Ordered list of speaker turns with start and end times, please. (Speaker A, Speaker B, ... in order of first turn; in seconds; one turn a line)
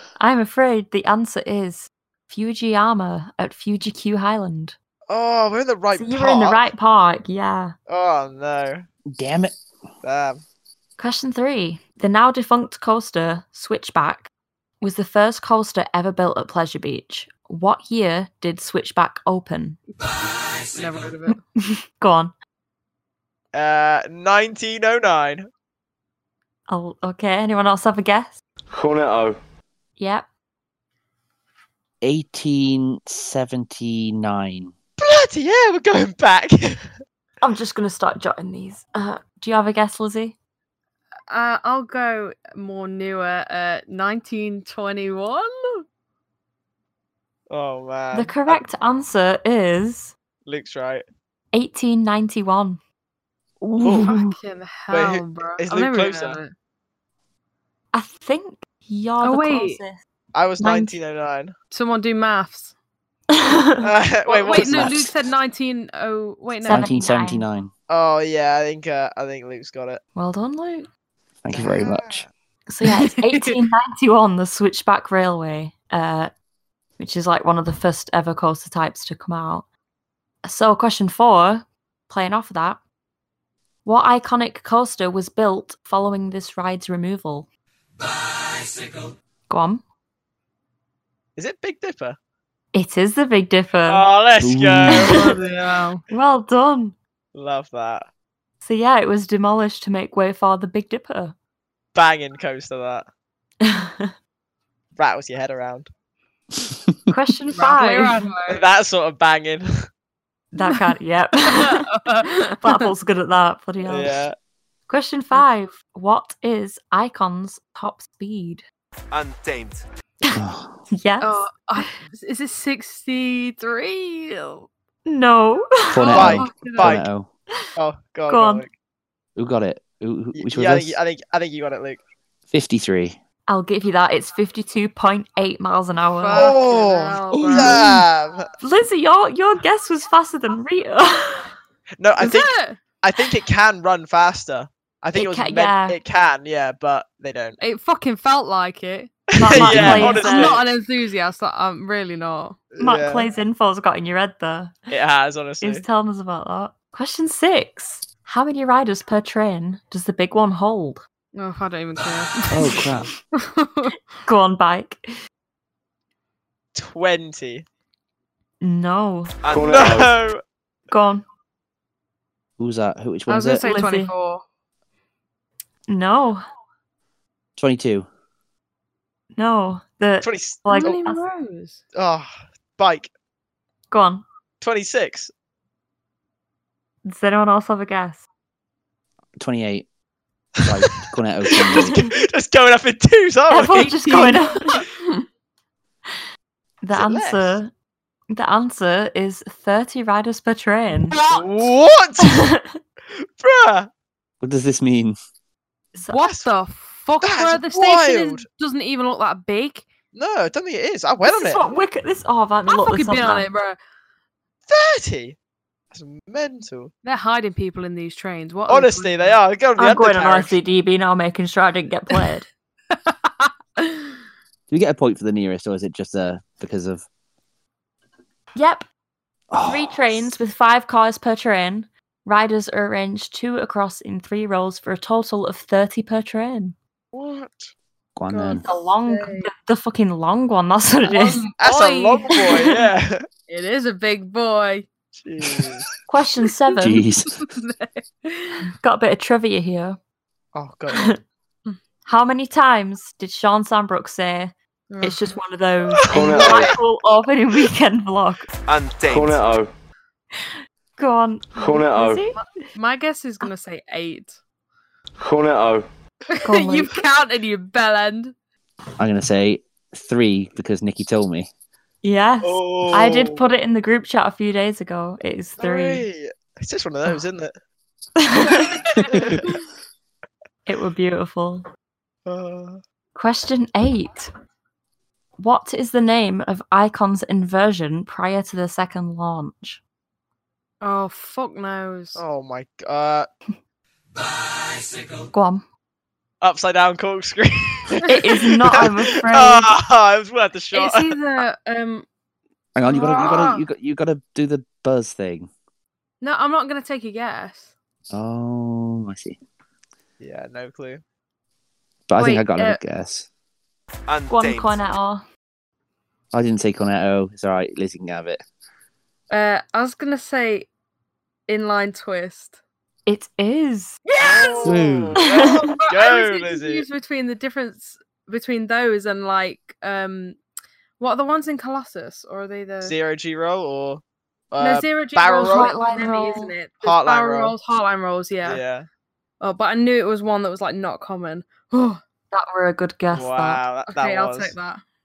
Speaker A: 0.2-4.8
Speaker B: 5.1-6.7
Speaker A: 5.9-7.8
Speaker B: 7.9-8.9
Speaker C: 9.1-9.6
Speaker B: 10.0-10.4
Speaker A: 11.0-14.3
Speaker A: 14.8-19.8
Speaker D: 20.7-21.4
Speaker A: 21.6-22.3
Speaker B: 23.5-25.5
Speaker A: 26.7-28.4
Speaker E: 28.7-29.4
Speaker A: 30.0-30.3
Speaker C: 32.0-34.7
Speaker B: 35.0-36.9
Speaker A: 37.4-40.4
Speaker D: 41.3-45.8
Speaker B: 47.5-48.6
Speaker A: 48.1-50.1
Speaker B: 50.5-51.0
Speaker A: 51.5-52.8
Speaker C: 53.6-54.3
Speaker A: 53.9-54.2
Speaker D: 54.0-56.5
Speaker B: 54.9-56.4
Speaker A: 57.9-60.0
Speaker D: 59.2-59.8
Speaker B: 60.3-61.5
Speaker A: 60.6-61.0
Speaker D: 61.7-62.8
Speaker A: 63.3-63.9
Speaker B: 63.8-65.0
Speaker D: 64.3-66.9
Speaker C: 64.6-65.1
Speaker C: 66.7-67.7
Speaker A: 66.7-67.5
Speaker B: 67.9-70.0
Speaker A: 70.2-70.9
Speaker C: 71.4-72.2
Speaker B: 71.5-72.3
Speaker A: 72.7-76.3
Speaker D: 72.8-73.6
Speaker A: 77.0-79.7
Speaker A: 80.4-82.8
Speaker A: 83.8-87.5
Speaker A: 89.5-89.8
Speaker B: 91.4-92.2
Speaker A: 92.7-94.1
Speaker B: 93.9-95.3
Speaker C: 94.4-95.1
Speaker A: 94.9-95.3
Speaker D: 95.1-96.0
Speaker A: 96.1-97.0
Speaker B: 97.3-98.0
Speaker A: 98.6-101.4
Speaker B: 102.0-103.1
Speaker A: 103.6-104.2
Speaker B: 105.0-105.9
Speaker A: 107.1-108.3
Speaker D: 107.5-108.6
Speaker B: 108.5-109.8
Speaker A: 110.5-112.0
Speaker D: 111.4-112.9
Speaker A: 112.6-114.2
Speaker B: 113.8-114.3
Speaker A: 114.9-118.6
Speaker F: 119.1-119.8
Speaker A: 120.2-121.9
Speaker C: 120.3-120.8
Speaker D: 121.2-124.7
Speaker A: 125.1-126.1
Speaker C: 125.9-127.3
Speaker D: 126.0-127.0
Speaker B: 126.1-127.1
Speaker B: 127.8-128.7
Speaker A: 128.3-128.7
Speaker C: 129.4-131.0
Speaker B: 130.3-132.0
Speaker C: 132.5-133.2
Speaker A: 133.5-136.6
Speaker D: 136.2-137.8
Speaker B: 136.3-138.5
Speaker C: 137.4-138.0
Speaker A: 138.6-141.5
Speaker B: 142.0-147.6
Speaker D: 142.2-142.8
Speaker A: 145.1-146.0
Speaker D: 147.6-149.1
Speaker A: 149.4-150.6
Speaker B: 149.4-150.8
Speaker C: 149.5-150.1
Speaker D: 149.9-152.6
Speaker B: 152.7-153.3
Speaker A: 152.8-154.8
Speaker B: 154.9-155.8
Speaker A: 155.6-161.0
Speaker D: 161.4-163.9
Speaker C: 162.5-163.1
Speaker A: 164.2-165.1
Speaker B: 166.8-167.7
Speaker A: 168.6-169.3
Speaker F: 169.4-170.0
Speaker E: 169.5-170.1
Speaker B: 169.5-170.4
Speaker A: 170.9-171.2
Speaker C: 172.6-173.7
Speaker D: 173.3-174.4
Speaker A: 173.6-174.1
Speaker A: 175.9-176.4
Speaker C: 177.6-178.1
Speaker A: 179.3-181.2
Speaker B: 180.2-180.6
Speaker D: 180.7-181.8
Speaker B: 181.9-183.1
Speaker A: 183.9-184.2
Speaker B: 184.6-185.3
Speaker A: 187.1-188.3
Speaker C: 189.4-189.9
Speaker C: 190.6-192.1
Speaker B: 190.6-191.0
Speaker B: 191.5-194.4
Speaker A: 191.5-192.1
Speaker A: 193.5-194.9
Speaker D: 193.7-195.2
Speaker A: 196.8-197.7
Speaker B: 196.9-197.6
Speaker A: 198.3-201.2
Speaker D: 201.1-201.7
Speaker B: 201.3-202.4
Speaker A: 202.2-202.8
Speaker B: 203.4-203.9
Speaker C: 204.4-205.2
Speaker D: 206.1-209.9
Speaker B: 206.2-206.5
Speaker B: 207.2-208.5
Speaker B: 210.1-211.7
Speaker A: 211.2-213.5
Speaker D: 212.7-213.8
Speaker B: 214.7-215.4
Speaker B: 215.9-216.9
Speaker D: 217.0-219.4
Speaker B: 218.7-220.5
Speaker A: 219.8-222.5
Speaker D: 222.9-224.1
Speaker C: 224.7-227.1
Speaker A: 228.6-228.9
Speaker C: 229.5-230.3
Speaker A: 229.7-236.8
Speaker B: 237.1-237.7
Speaker C: 238.2-238.7
Speaker D: 238.3-239.5
Speaker A: 238.6-241.5
Speaker D: 241.1-242.3
Speaker B: 241.6-243.2
Speaker A: 242.3-242.8
Speaker D: 243.5-244.9
Speaker B: 245.2-245.9
Speaker A: 246.1-247.0
Speaker D: 246.7-248.6
Speaker C: 246.8-247.3
Speaker A: 248.8-250.0
Speaker B: 250.6-251.1
Speaker A: 250.9-251.2
Speaker A: 252.1-258.5
Speaker D: 254.9-255.4
Speaker E: 256.0-256.8
Speaker B: 256.2-256.8
Speaker F: 258.7-259.4
Speaker E: 259.1-259.7
Speaker A: 261.0-262.4
Speaker E: 261.6-262.3
Speaker D: 262.4-264.4
Speaker E: 265.2-265.9
Speaker D: 266.3-268.3
Speaker A: 266.4-267.0
Speaker C: 269.0-271.5
Speaker A: 272.0-276.1
Speaker B: 272.4-273.5
Speaker B: 275.6-277.5
Speaker A: 278.2-279.5
Speaker D: 279.0-279.5
Speaker A: 280.7-281.7
Speaker B: 282.3-282.8
Speaker A: 283.1-284.3
Speaker A: 285.4-289.8
Speaker D: 290.8-292.2
Speaker B: 292.2-293.3
Speaker A: 295.3-295.7
Speaker B: 296.4-301.2
Speaker A: 298.1-299.7
Speaker D: 300.7-302.1
Speaker C: 302.8-305.5
Speaker D: 302.9-303.6
Speaker D: 306.2-307.7
Speaker C: 308.1-309.4
Speaker B: 310.2-311.0
Speaker C: 312.1-313.3
Speaker D: 312.1-312.8
Speaker F: 314.1-314.8
Speaker A: 314.3-315.3
Speaker C: 316.3-318.4
Speaker D: 319.3-320.7
Speaker D: 321.5-322.6
Speaker A: 323.1-324.0
Speaker D: 324.1-324.8
Speaker B: 324.2-326.9
Speaker C: 324.6-325.2
Speaker A: 325.3-325.6
Speaker D: 325.4-330.4
Speaker D: 331.0-332.9
Speaker B: 332.9-335.7
Speaker D: 334.6-338.6
Speaker A: 335.4-336.5
Speaker B: 336.8-337.6
Speaker B: 338.4-338.9
Speaker D: 339.4-342.0
Speaker A: 342.3-343.6
Speaker B: 343.1-344.5
Speaker D: 343.9-344.8